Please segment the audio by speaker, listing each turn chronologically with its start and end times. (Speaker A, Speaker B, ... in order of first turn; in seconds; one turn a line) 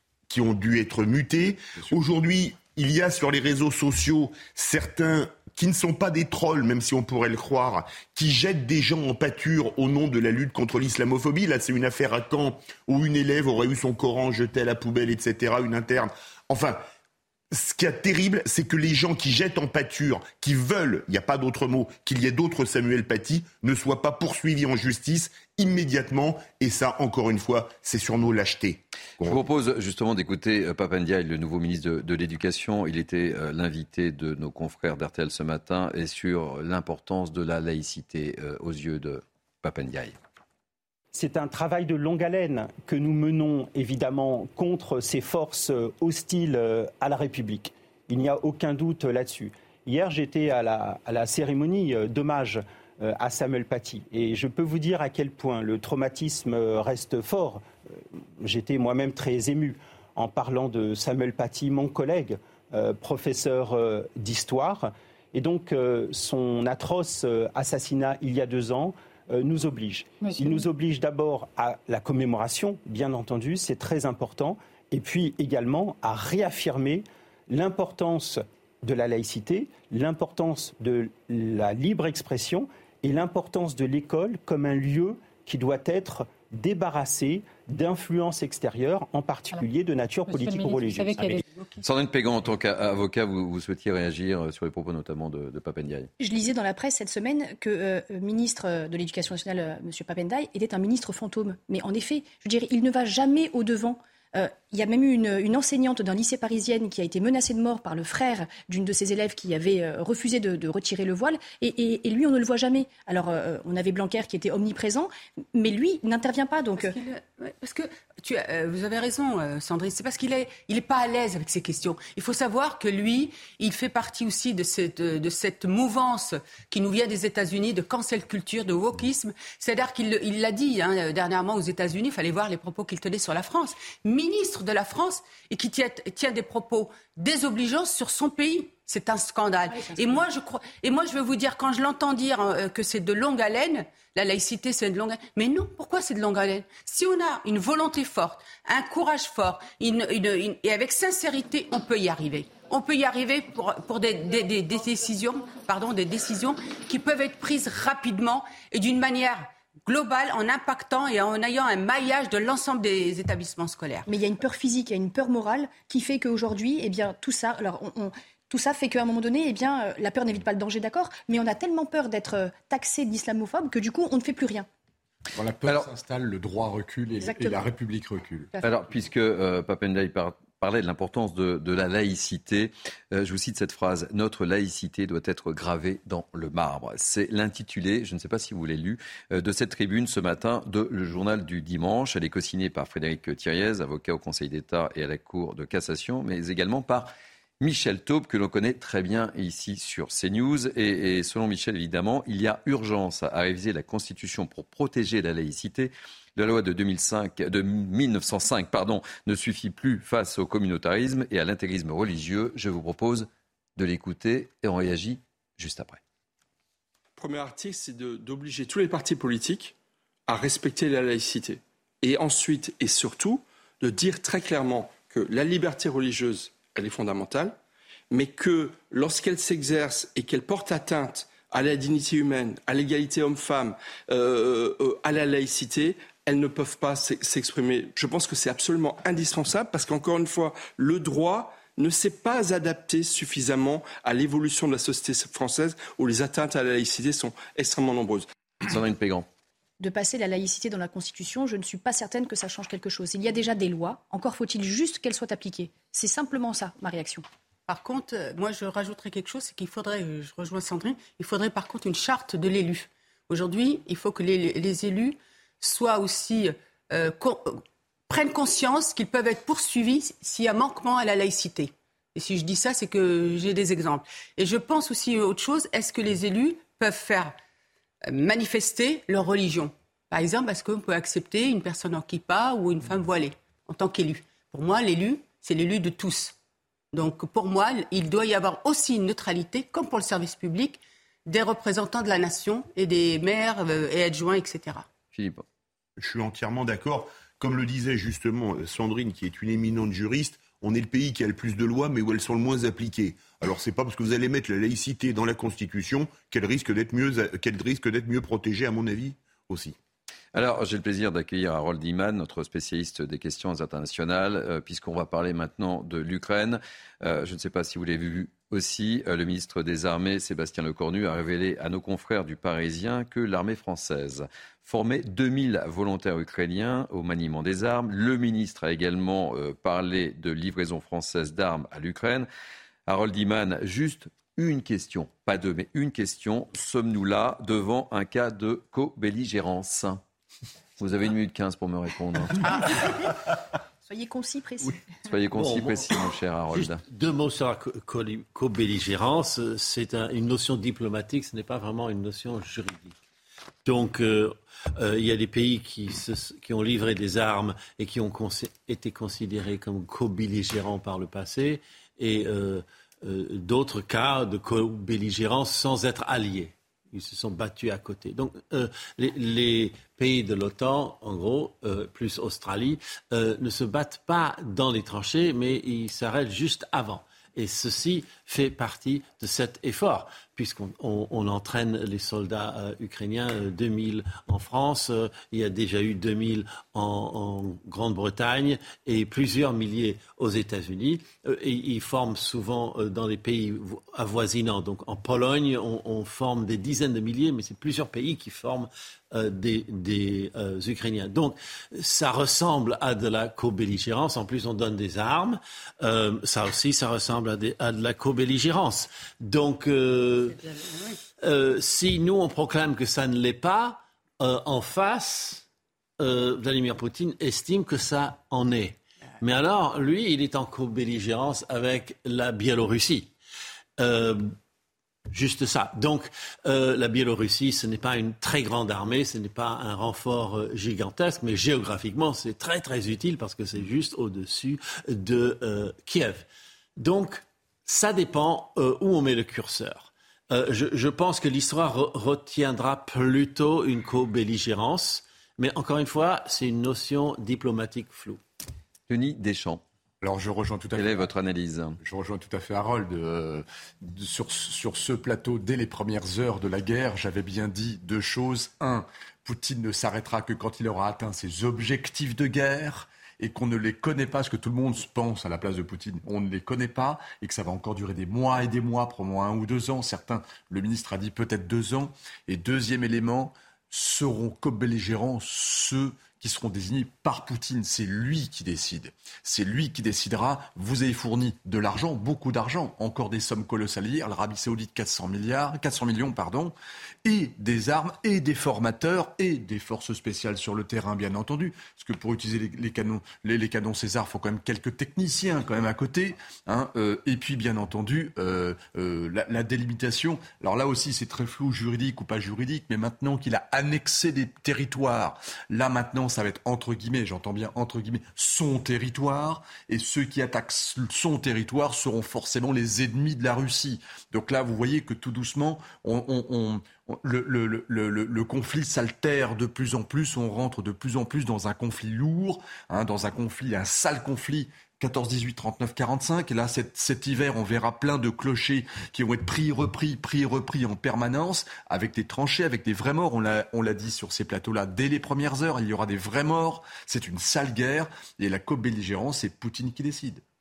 Speaker A: 0.3-16.8
Speaker A: 17.5-29.4
Speaker B: 29.2-40.1
Speaker C: 41.1-91.4
Speaker D: 91.4-91.8
Speaker B: 91.8-96.1
Speaker E: 96.2-117.0
Speaker D: 116.8-164.1
Speaker E: 139.7-140.2
Speaker E: 164.1-174.7
Speaker F: 175.3-178.5
Speaker E: 177.2-177.6
Speaker B: 178.6-216.0
Speaker G: 217.2-219.7
Speaker G: 220.3-227.6
Speaker G: 228.1-248.2
Speaker B: 248.6-249.3
Speaker E: 249.8-257.2
Speaker D: 257.7-277.3
Speaker D: 278.1-286.3
Speaker D: 286.9-294.9
Speaker B: 295.1-295.4
Speaker A: 296.0-309.8
Speaker B: 310.3-332.3
Speaker B: 332.9-340.0
Speaker B: 340.8-342.6
Speaker E: 342.5-342.8
Speaker E: 343.9-344.9
Speaker B: 345.1-346.8
Speaker H: 345.3-353.0
Speaker H: 353.6-410.4
Speaker D: 410.7-410.9
Speaker H: 411.2-415.4
Speaker H: 416.0-423.1
Speaker H: 423.8-424.4
Speaker H: 425.1-448.2
Speaker B: 448.9-449.6
Speaker F: 450.0-451.1
Speaker B: 450.8-451.8
Speaker F: 451.8-540.2